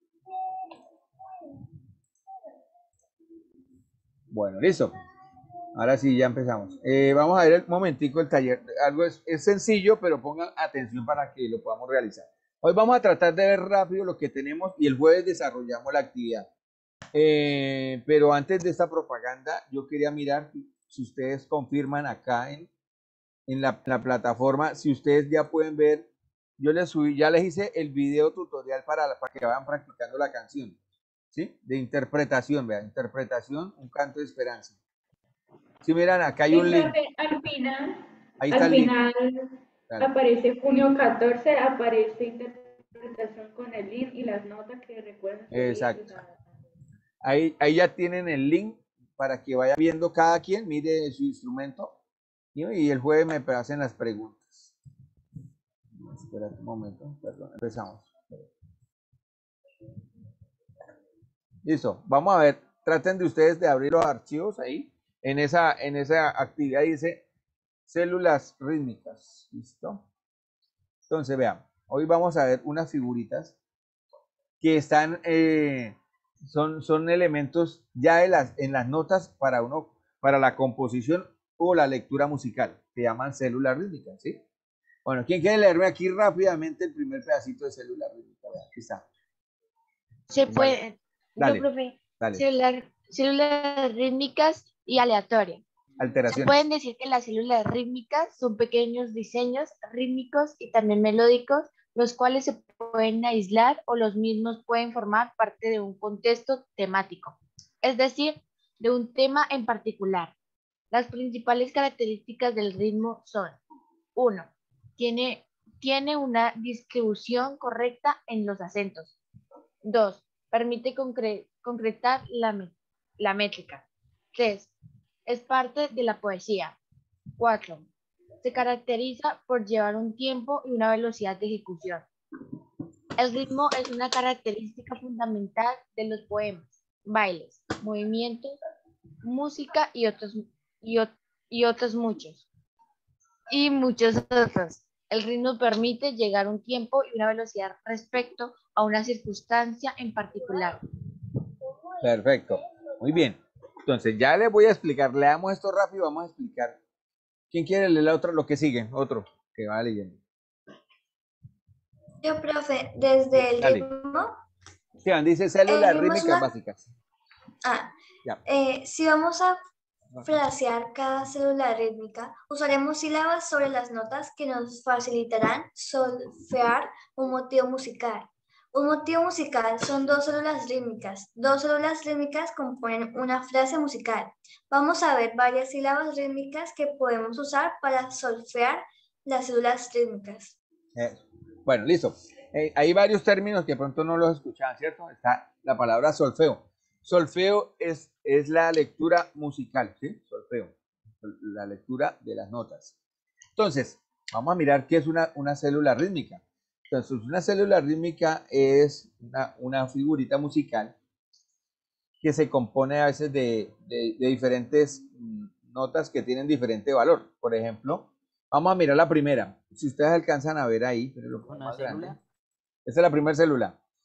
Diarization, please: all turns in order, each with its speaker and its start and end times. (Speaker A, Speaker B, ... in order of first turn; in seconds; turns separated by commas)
Speaker A: 4.3-4.9, Speaker A: 5.7-16.5, Speaker A: 17.1-22.7, Speaker A: 23.5-26.1, Speaker A: 26.6-30.8, Speaker A: 31.3-34.7, Speaker A: 35.8-36.9, Speaker B: 36.5-39.5, Speaker A: 38.4-38.9, Speaker B: 40.0-46.3, Speaker A: 45.5-46.0, Speaker A: 47.2-51.9, Speaker A: 52.5-54.7, Speaker A: 56.0-58.5, Speaker A: 61.6-67.2, Speaker A: 67.8-70.0, Speaker A: 71.1-73.5, Speaker A: 74.6-84.4, Speaker A: 85.0-89.0, Speaker C: 90.3-95.6, Speaker A: 90.5-90.8, Speaker A: 91.4-91.6, Speaker A: 96.0-96.6, Speaker C: 96.3-110.3, Speaker C: 110.9-113.6, Speaker C: 114.1-119.2, Speaker C: 119.8-124.7, Speaker C: 125.2-126.8, Speaker C: 127.4-127.9, Speaker C: 128.4-132.1, Speaker C: 133.2-138.6, Speaker C: 139.2-142.4, Speaker C: 143.5-150.8, Speaker A: 152.0-156.8, Speaker A: 157.5-160.2, Speaker D: 162.2-164.3, Speaker A: 163.6-163.8, Speaker A: 165.0-166.9, Speaker D: 165.7-166.5, Speaker D: 167.6-167.9, Speaker D: 168.4-169.6, Speaker D: 170.2-190.5, Speaker A: 190.9-202.9, Speaker A: 203.6-210.9, Speaker A: 212.2-222.2, Speaker A: 222.8-223.8